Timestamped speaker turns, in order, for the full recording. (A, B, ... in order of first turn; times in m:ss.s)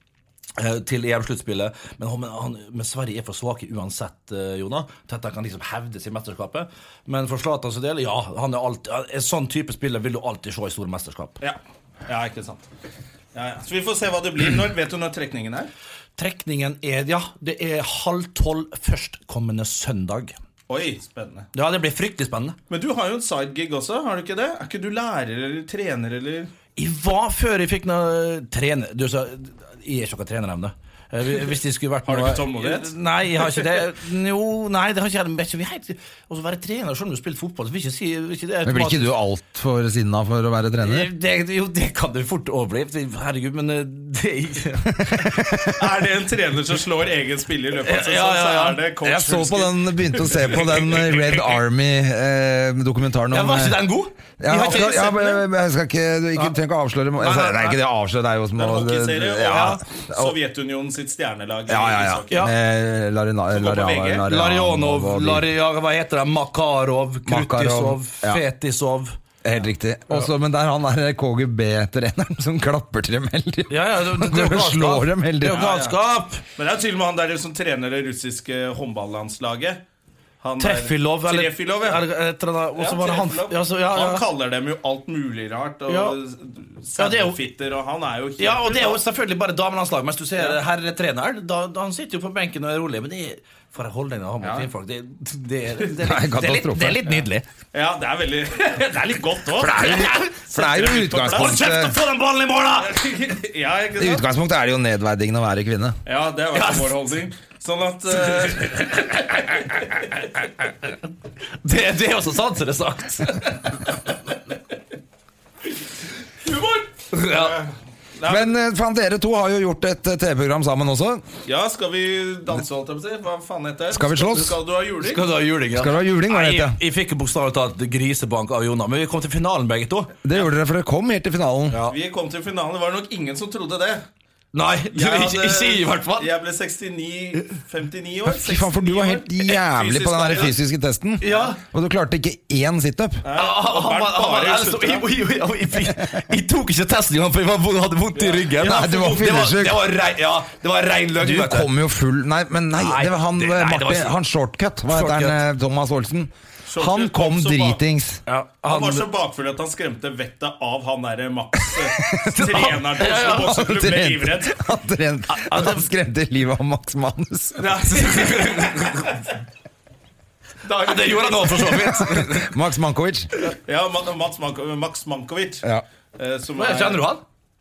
0:00.6-0:11.4 A
0:11.4-0:12.7 B
0:13.3-0:15.7 B
0:16.2-0:20.3 A
0:20.7-0:21.5 B
0:21.5-0:22.6 A
0:22.7-0:26.5 B
0:26.8-0:39.2 A
0:32.0-0:32.9 B
0:38.6-0:41.1 C
0:40.8-0:45.8 A
0:45.1-0:45.6 C
0:45.8-0:51.6 B
0:47.8-0:48.9 A
0:49.0-0:53.8 C
0:53.3-0:55.1 A
0:54.4-1:00.3 C
0:54.5-0:55.4 B
0:57.2-0:57.8 A
0:58.6-1:02.5 B
0:59.4-0:59.8 A
1:01.7-1:05.5 C
1:03.5-1:04.3 B
1:04.2-1:09.1 A
1:07.2-1:08.4 C
1:09.4-1:15.7 C
1:13.7-1:16.4 A
1:15.5-1:16.0 B
1:16.6-1:19.8 B
1:20.4-1:22.0 B
1:20.6-1:24.2 A
1:22.8-1:29.0 B
1:25.9-1:26.2 A
1:27.0-1:27.4 A
1:28.4-1:37.5 A
1:34.4-1:34.7 B
1:36.0-1:37.0 C
1:37.1-1:41.6 B
1:39.4-1:40.4 A
1:39.7-1:42.0 C
1:41.2-1:43.0 A
1:42.8-1:44.2 B
1:44.0-1:46.0 C
1:46.0-1:49.1 B
1:46.5-1:47.0 A
1:48.4-1:49.6 A
1:51.6-1:53.7 A
1:56.4-1:58.5 B
1:57.1-1:57.6 A
1:58.2-2:01.2 C
2:01.4-2:05.2 B
2:03.9-2:04.6 C
2:05.0-2:10.1 A
2:05.7-2:06.8 C
2:10.2-2:11.8 C
2:11.7-2:12.0 A
2:11.9-2:14.0 B
2:14.5-2:16.3 A
2:14.9-2:20.6 B
2:18.2-2:23.2 C
2:21.2-2:21.6 A
2:21.2-2:21.5 B
2:23.2-2:25.1 B
2:23.3-2:31.7 A
2:28.1-2:29.4 B
2:28.6-2:29.9 C
2:31.2-2:38.2 C
2:32.8-2:34.1 A
2:34.9-2:35.4 A
2:36.6-2:37.8 B
2:38.3-2:39.1 A
2:38.6-2:44.6 B
2:42.0-2:42.3 C
2:42.0-2:43.6 A
2:43.1-2:47.9 C
2:45.3-2:45.9 A
2:47.6-2:49.1 B
2:47.6-2:49.2 A
2:50.6-2:51.9 B
2:50.7-2:52.6 A
2:52.0-2:53.3 C
2:53.4-2:55.6 B
2:56.2-2:57.1 B
2:56.6-2:57.2 A